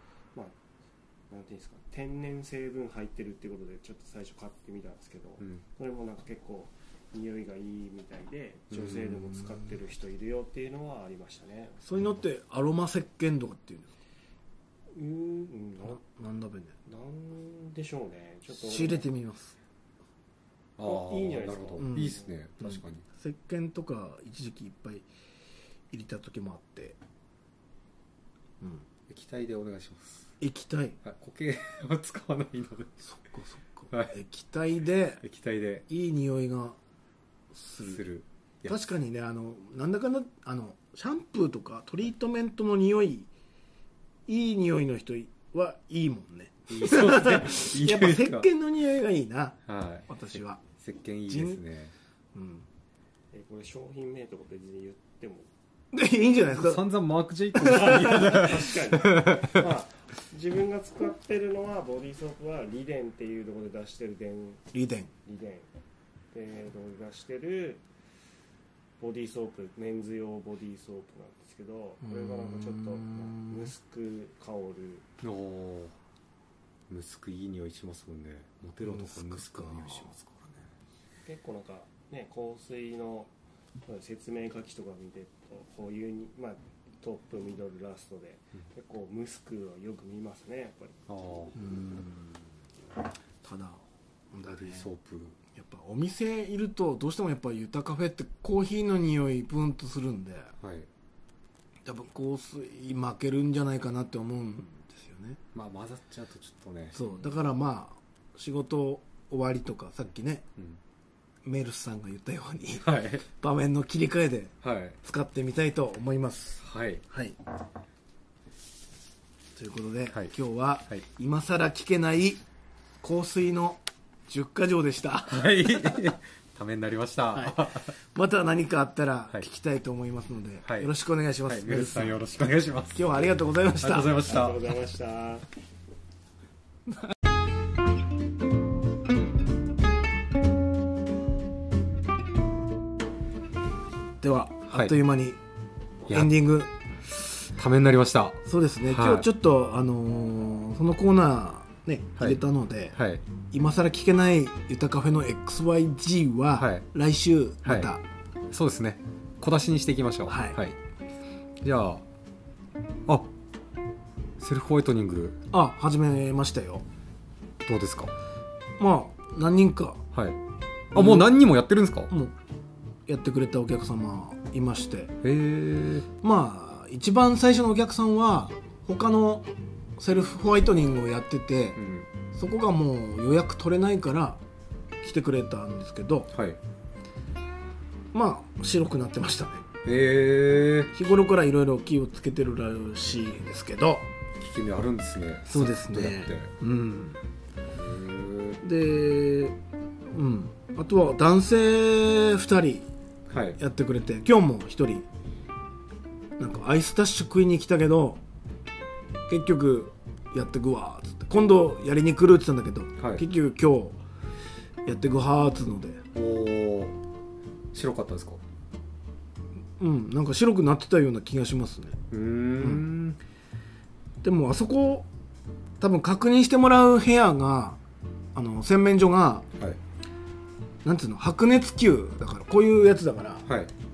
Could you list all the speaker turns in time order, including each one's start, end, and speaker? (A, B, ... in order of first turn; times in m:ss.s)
0:01.3-0:11.8 A
0:08.7-0:09.2 B
0:09.3-0:09.6 C
0:11.8-0:13.9 C
0:14.9-0:16.0 A
0:15.9-0:16.7 C
0:16.9-0:19.1 A
0:18.5-0:19.6 C
0:20.8-0:23.0 B
0:20.8-0:22.3 A
0:21.8-0:25.1 C
0:25.9-0:27.0 C
0:28.6-0:28.9 C
0:29.1-0:30.3 B
0:30.4-0:31.0 C
0:31.0-0:32.9 B
0:33.0-0:35.2 C
0:35.2-0:35.9 B
0:35.9-0:36.8 C
0:37.5-0:38.0 C
0:37.9-0:38.8 B
0:38.6-0:43.3 C
0:44.3-0:50.6 C
0:46.7-0:48.5 B
0:49.6-0:50.1 B
0:50.8-0:51.9 B
0:51.3-0:51.6 C
0:52.4-0:52.6 C
0:53.3-0:55.5 A
0:55.9-0:56.8 C
0:56.5-0:59.6 B
0:57.6-0:58.5 C
0:57.7-1:04.6 A
1:04.7-1:05.1 C
1:05.3-1:05.7 A
1:06.3-1:07.8 A
1:09.0-1:15.1 A
1:12.0-1:13.7 C
1:15.2-1:15.9 B
1:16.9-1:20.7 B
1:18.8-1:20.1 C
1:21.3-1:23.3 A
1:23.8-1:31.5 A
1:31.1-1:31.6 B
1:31.6-1:32.4 C
1:33.4-1:33.8 C
1:34.3-1:34.9 C
1:34.6-1:35.4 B
1:35.6-1:40.5 C
1:40.6-1:40.9 B
1:41.8-1:45.4 C
1:45.5-1:47.0 B
1:46.9-1:50.4 C
1:51.4-1:57.4 C
1:52.8-1:53.2 B
1:54.6-1:55.0 B
1:56.6-1:57.0 B
1:59.6-2:02.4 C
2:03.0-2:06.1 C
2:05.3-2:07.9 B
2:07.3-2:12.2 C
2:10.6-2:10.9 B
2:11.5-2:14.6 B
2:12.9-2:14.1 C
2:14.2-2:15.5 A
2:24.2-2:25.4 C
2:26.1-2:26.3 B
2:26.1-2:26.7 C
2:27.6-2:29.3 B
2:28.4-2:33.0 C
2:32.9-2:33.2 B
2:33.5-2:38.0 C
2:36.6-2:36.8 B
2:37.6-2:37.9 B
2:38.5-2:40.8 B
2:40.3-2:40.6 C
2:41.6-2:42.0 B
2:44.4-2:45.4 B
2:45.5-2:46.8 C
2:47.6-2:48.1 B
2:48.8-2:50.0 C
2:50.1-2:50.4 B
2:50.9-2:52.1 B
2:50.9-2:51.3 C
2:53.1-2:55.1 C
2:55.2-2:56.1 B
2:56.2-3:01.8 C
3:01.8-3:02.1 B
3:02.3-3:04.4 C
3:05.0-3:06.3 C
3:06.3-3:06.6 B
3:08.1-3:09.6 C
3:09.8-3:10.9 B
3:10.9-3:14.1 C
3:14.4-3:16.5 B
3:15.5-3:17.2 C
3:17.7-3:18.6 B
3:18.6-3:19.6 C
3:20.1-3:22.9 C
3:23.3-3:23.6 B
3:23.6-3:25.0 C
3:26.4-3:28.2 C
3:29.3-3:34.0 C
3:34.8-3:36.0 C
3:36.1-3:36.9 B
3:37.7-3:38.4 B
3:39.8-3:42.0 C
3:42.1-3:43.2 B
3:44.2-3:45.1 C
3:45.8-3:47.8 C
3:48.4-3:49.5 C
3:50.8-3:53.5 C
3:53.5-3:53.7 B